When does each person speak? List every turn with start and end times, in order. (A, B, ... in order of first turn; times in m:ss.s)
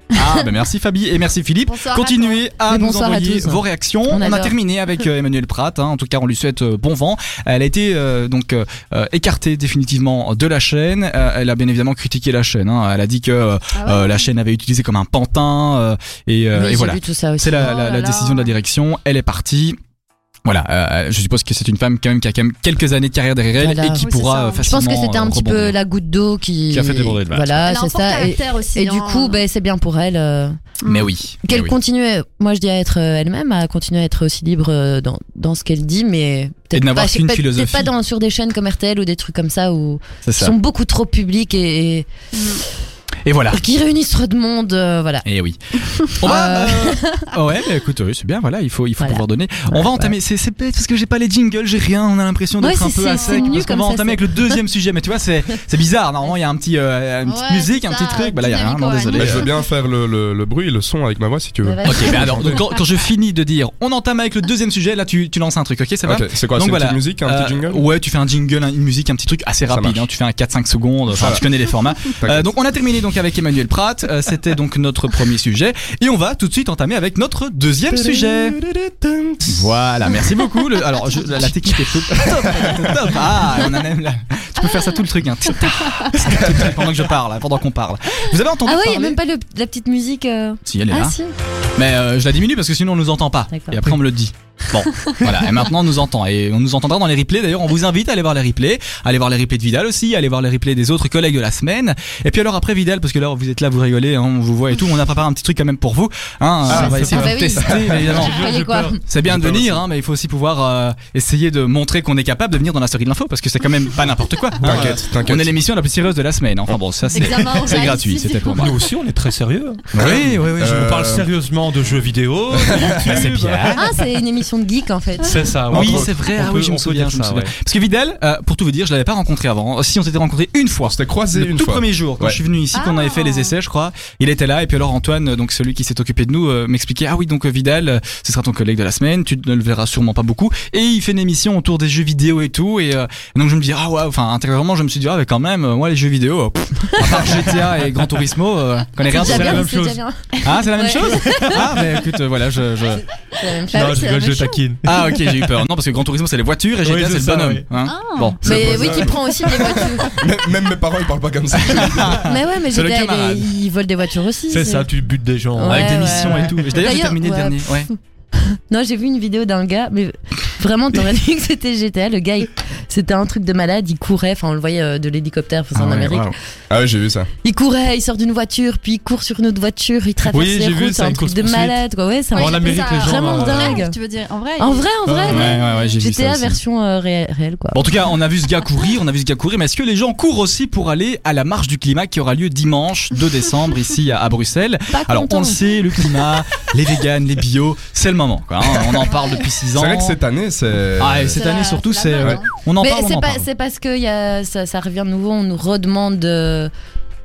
0:00.1-0:19.8 A
0:01.6-0:02.4 B
0:02.7-0:04.5 C
0:13.7-0:14.2 B
0:16.5-0:17.8 C
0:17.6-0:18.5 B
0:20.4-0:25.8 A
0:23.6-0:30.6 C
0:24.0-0:24.7 B
0:26.7-0:27.6 A
0:27.6-0:29.4 B
0:30.8-0:31.1 B
0:30.9-0:31.8 A
0:31.4-0:42.1 C
0:36.7-0:37.9 A
0:40.2-0:40.5 A
0:42.3-0:42.6 B
0:43.2-0:43.6 A
0:43.5-0:45.2 C
0:45.2-0:59.5 A
0:46.2-0:47.0 C
0:46.4-0:47.3 B
0:49.0-0:50.1 C
0:52.6-0:54.6 C
0:53.1-0:53.6 B
0:57.2-0:59.4 B
0:59.1-1:02.6 D
1:01.6-1:02.6 C
1:01.8-1:18.6 A
1:06.0-1:07.8 D
1:09.7-1:10.0 D
1:11.1-1:11.4 D
1:12.2-1:12.5 D
1:18.0-1:19.6 D
1:19.4-1:29.2 A
1:22.1-1:23.0 D
1:25.6-1:26.1 B
1:26.5-1:26.7 D
1:28.6-1:31.3 C
1:30.6-1:31.2 A
1:31.8-1:48.4 A
1:33.5-1:33.8 C
1:46.7-1:48.2 D
1:46.7-1:49.0 E
1:46.7-1:49.0 C
1:49.0-1:58.8 A
1:49.2-1:49.8 D
1:54.6-1:55.5 D
1:54.7-1:55.0 E
1:57.1-1:58.7 B
1:58.5-2:03.8 E
1:59.9-2:00.7 A
2:00.0-2:01.3 D
2:02.5-2:03.2 D
2:03.0-2:03.8 A
2:03.8-2:05.5 C
2:05.2-2:07.5 E
2:05.7-2:06.1 D
2:05.7-2:29.7 A
2:10.8-2:12.4 D
2:12.7-2:13.5 B
2:29.1-2:31.6 C
2:29.1-2:30.0 E
2:30.4-2:33.0 A
2:33.4-2:34.1 C
2:33.7-2:34.6 B
2:33.7-2:34.9 E
2:34.8-2:39.1 A
2:36.8-2:37.7 E
2:37.8-2:38.4 B
2:38.4-2:40.1 C
2:38.4-2:39.1 D
2:38.5-2:39.1 E
2:40.0-2:42.2 D
2:41.6-2:43.5 A
2:42.2-2:44.9 C
2:44.5-2:46.6 E
2:45.5-2:47.7 C
2:45.7-2:47.9 A
2:48.7-2:56.3 C
2:55.8-2:56.3 A
2:56.7-2:57.3 D
2:57.4-3:04.0 C
3:00.3-3:01.8 E
3:02.3-3:05.6 B
3:02.4-3:03.8 E
3:04.6-3:07.9 C
3:05.1-3:06.6 A
3:07.7-3:20.2 A
3:14.9-3:15.7 C
3:19.7-3:21.5 D
3:21.0-3:23.5 A
3:21.3-3:22.5 B
3:22.8-3:26.7 C